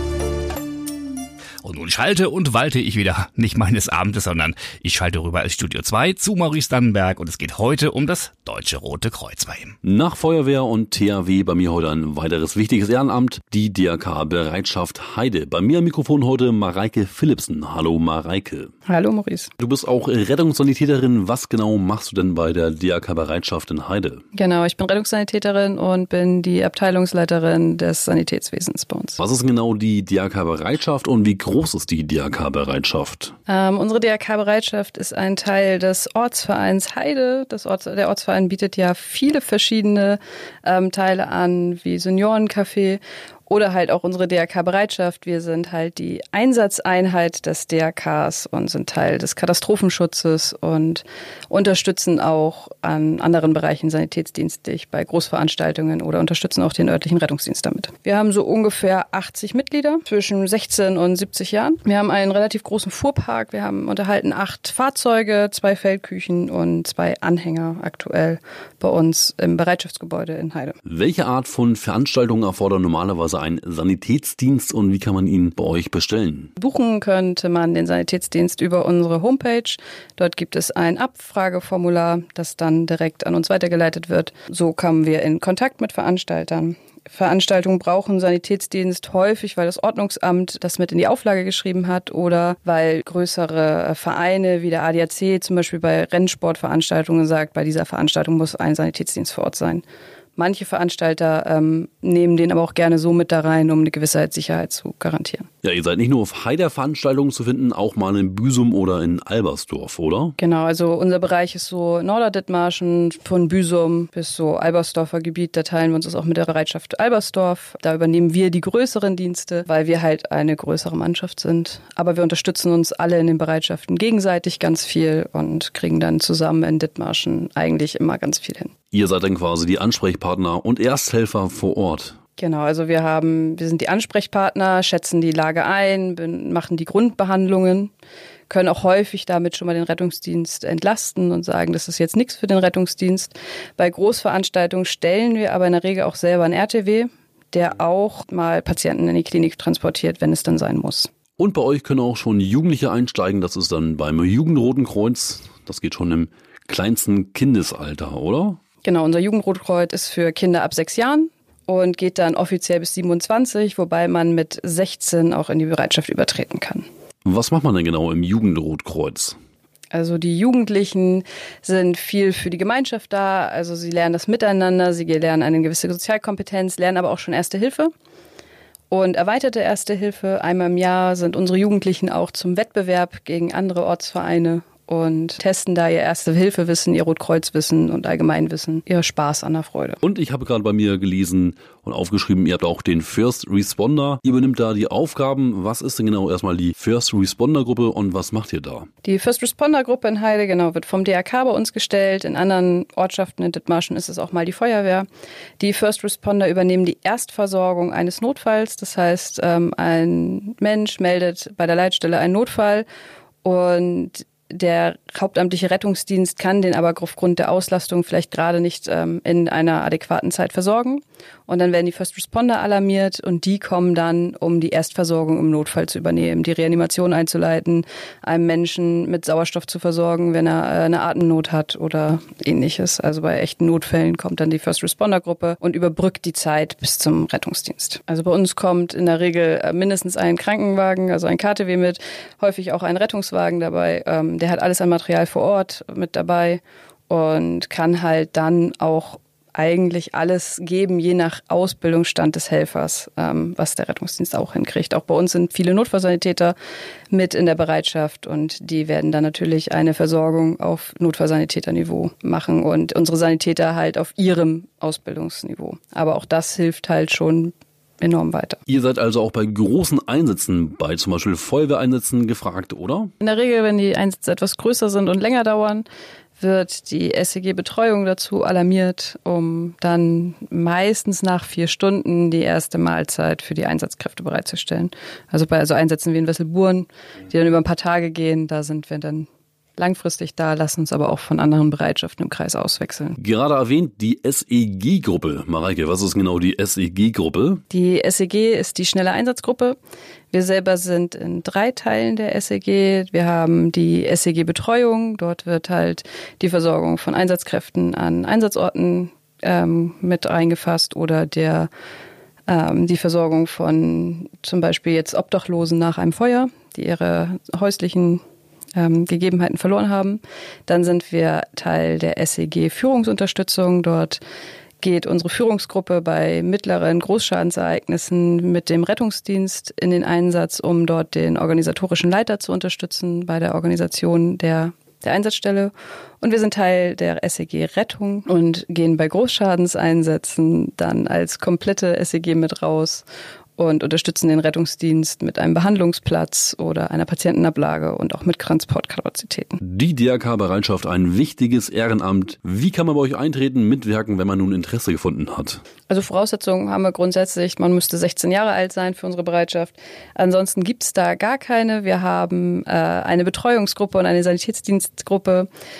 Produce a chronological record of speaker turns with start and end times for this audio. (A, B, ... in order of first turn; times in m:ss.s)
0:01.6-0:09.8 A
0:09.8-0:18.7 B
0:18.9-0:19.5 C
0:19.6-0:24.2 B
0:24.3-0:29.2 C
0:29.2-0:33.3 B
0:33.5-1:10.8 C
1:10.8-1:16.5 B
1:16.6-1:39.8 C
1:40.4-1:45.5 C
1:45.6-1:50.3 B
1:50.4-2:08.7 C
2:08.9-2:12.2 B
2:12.4-2:17.9 C
2:18.5-2:31.1 C
2:31.4-2:38.6 B
2:38.8-2:46.9 C
2:47.2-2:49.4 B
2:49.9-2:57.9 C
2:58.9-3:10.0 C
3:10.0-3:18.9 B
3:19.0-3:25.1 C
3:25.6-3:32.9 C
3:33.4-4:16.6 C
4:17.1-4:28.6 C
4:28.7-4:33.1 B
4:33.2-4:35.8 C
4:36.4-4:53.2 C
4:53.2-4:57.6 B
4:57.7-4:59.8 C
5:00.3-5:11.7 C
5:12.5-5:18.2 C
5:18.8-5:24.2 C
5:24.8-5:43.0 C
5:43.6-5:49.6 C
5:49.6-5:55.6 B
5:55.9-6:05.5 C